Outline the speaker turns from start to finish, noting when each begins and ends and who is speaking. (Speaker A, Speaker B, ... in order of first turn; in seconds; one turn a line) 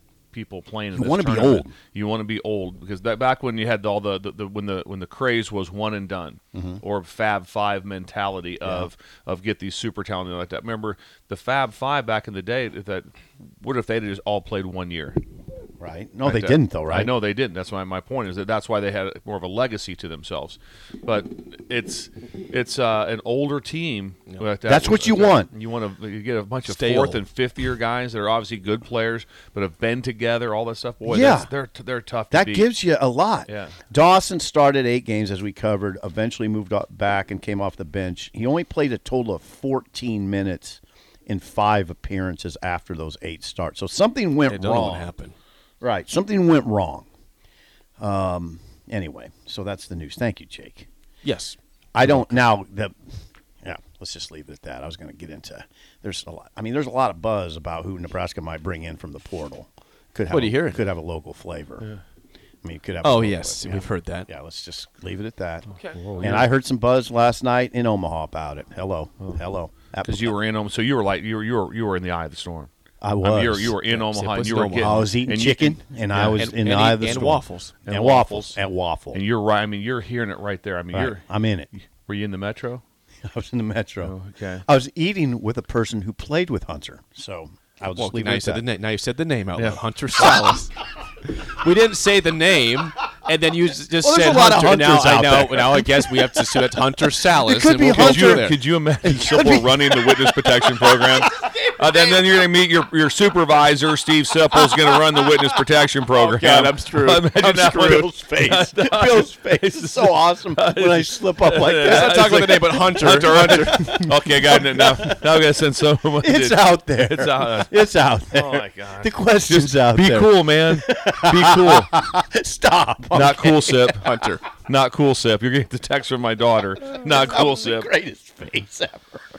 Speaker A: 0.3-15.2
Speaker B: 0.9-1.7
Speaker B: 6.5-6.8
Speaker B: 15.8-17.1
Speaker A: 16.2-32.7
Speaker B: 24.6-25.5
Speaker C: 26.7-27.2
Speaker B: 31.1-31.5
Speaker B: 32.3-45.1
Speaker A: 33.5-33.8
Speaker C: 44.5-45.3
Speaker B: 45.8-47.1
Speaker B: 48.0-50.9
Speaker C: 51.2-52.4
Speaker B: 51.9-52.9
Speaker B: 53.6-61.9
Speaker C: 60.3-60.8
Speaker B: 62.6-70.3
Speaker C: 63.0-64.3
Speaker A: 65.9-66.5
Speaker A: 70.0-72.7
Speaker B: 73.0-73.7
Speaker A: 73.2-76.4
Speaker C: 73.8-75.1
Speaker B: 74.8-79.2
Speaker C: 76.3-77.8
Speaker A: 77.8-78.6
Speaker A: 79.1-81.2
Speaker B: 80.9-81.7
Speaker A: 82.0-82.8
Speaker B: 83.3-84.1
Speaker A: 84.0-84.6
Speaker B: 84.6-88.6
Speaker C: 88.0-90.7
Speaker A: 89.5-90.3
Speaker C: 91.2-98.6
Speaker B: 94.0-98.5
Speaker A: 98.0-121.9
Speaker B: 99.0-102.2
Speaker B: 104.5-105.4
Speaker C: 106.1-108.0
Speaker B: 107.4-112.5
Speaker C: 111.8-114.0
Speaker B: 113.2-115.2
Speaker B: 116.2-124.1
Speaker A: 123.1-124.0
Speaker C: 123.9-124.4
Speaker A: 124.6-127.9
Speaker B: 126.9-129.2